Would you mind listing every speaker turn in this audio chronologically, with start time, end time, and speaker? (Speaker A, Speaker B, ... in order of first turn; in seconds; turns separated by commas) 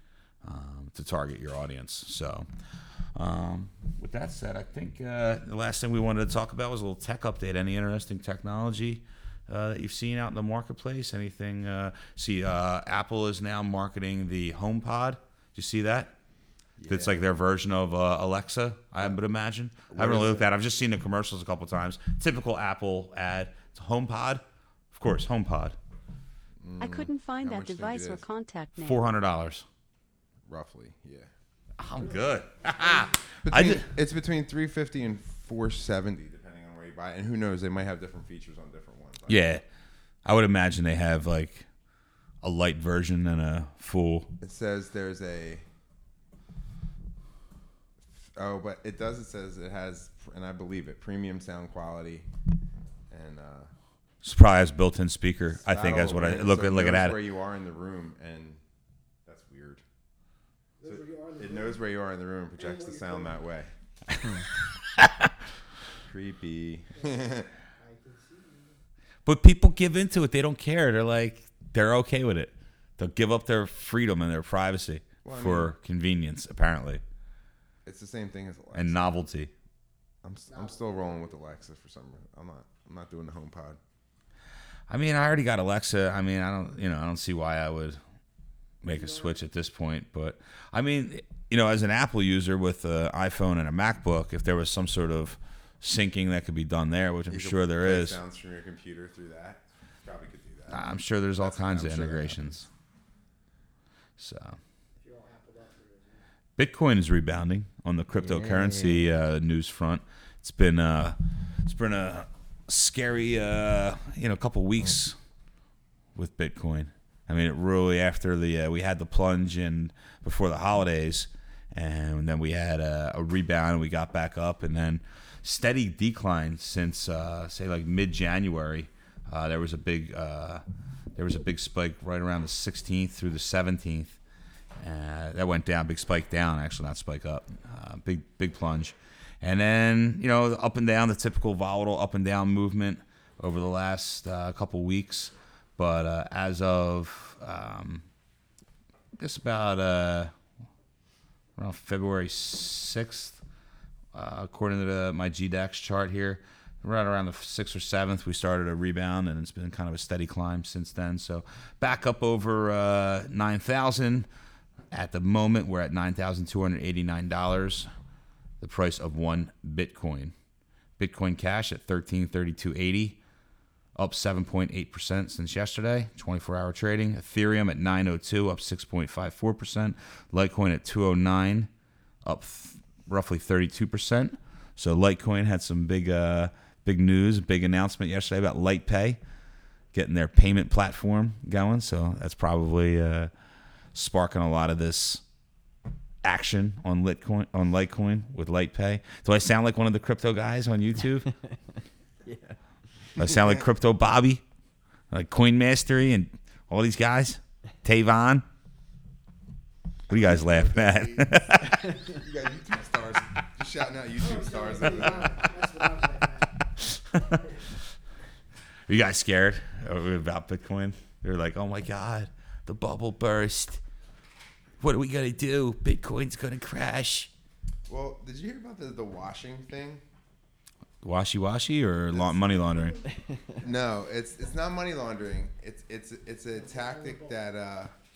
Speaker A: 0.4-16.1, Speaker B: 16.8-17.2, Speaker A: 16.8-25.8, Speaker B: 19.9-20.4, Speaker B: 26.6-28.2, Speaker C: 26.8-29.0, Speaker A: 28.8-29.6, Speaker B: 30.4-31.3, Speaker A: 31.8-33.9, Speaker B: 33.4-39.5, Speaker A: 39.3-39.6, Speaker A: 40.2-41.7, Speaker A: 42.4-44.3, Speaker B: 44.4-45.6, Speaker B: 48.2-52.3, Speaker B: 53.1-53.7, Speaker A: 54.2-57.2, Speaker B: 55.6-58.6, Speaker B: 59.2-59.8, Speaker D: 60.8-61.8, Speaker B: 60.8-63.7, Speaker D: 62.6-63.3, Speaker A: 64.2-65.3, Speaker B: 65.9-67.5, Speaker D: 66.9-68.8, Speaker A: 69.2-77.0, Speaker B: 75.2-75.7, Speaker B: 77.8-79.1, Speaker A: 78.7-79.5, Speaker B: 80.2-83.8, Speaker D: 80.5-81.4, Speaker A: 84.9-88.0, Speaker A: 88.8-98.2, Speaker D: 88.9-89.4, Speaker B: 97.3-100.9, Speaker A: 100.7-102.7, Speaker B: 101.4-102.5, Speaker A: 104.2-104.6, Speaker D: 105.0-106.2, Speaker A: 106.6-115.2, Speaker E: 108.2-109.1, Speaker A: 116.1-130.6, Speaker A: 131.1-134.2, Speaker A: 134.8-148.0, Speaker A: 149.2-150.3, Speaker A: 151.6-153.4, Speaker A: 154.1-164.3, Speaker A: 164.9-167.9, Speaker A: 168.6-170.3, Speaker A: 171.0-173.2, Speaker A: 173.9-181.7, Speaker A: 182.2-189.2, Speaker A: 189.9-193.3, Speaker A: 193.9-195.2, Speaker A: 196.2-201.3, Speaker E: 202.2-203.0, Speaker A: 203.2-204.4, Speaker A: 205.1-208.4, Speaker A: 210.1-212.0, Speaker B: 210.1-215.5, Speaker D: 214.2-216.7, Speaker A: 216.8-217.8, Speaker D: 217.2-217.6, Speaker A: 218.9-223.8, Speaker A: 224.8-227.3, Speaker B: 227.9-230.0, Speaker A: 231.0-233.0, Speaker B: 232.1-232.6, Speaker E: 233.1-233.6, Speaker B: 233.6-237.9, Speaker D: 236.5-237.4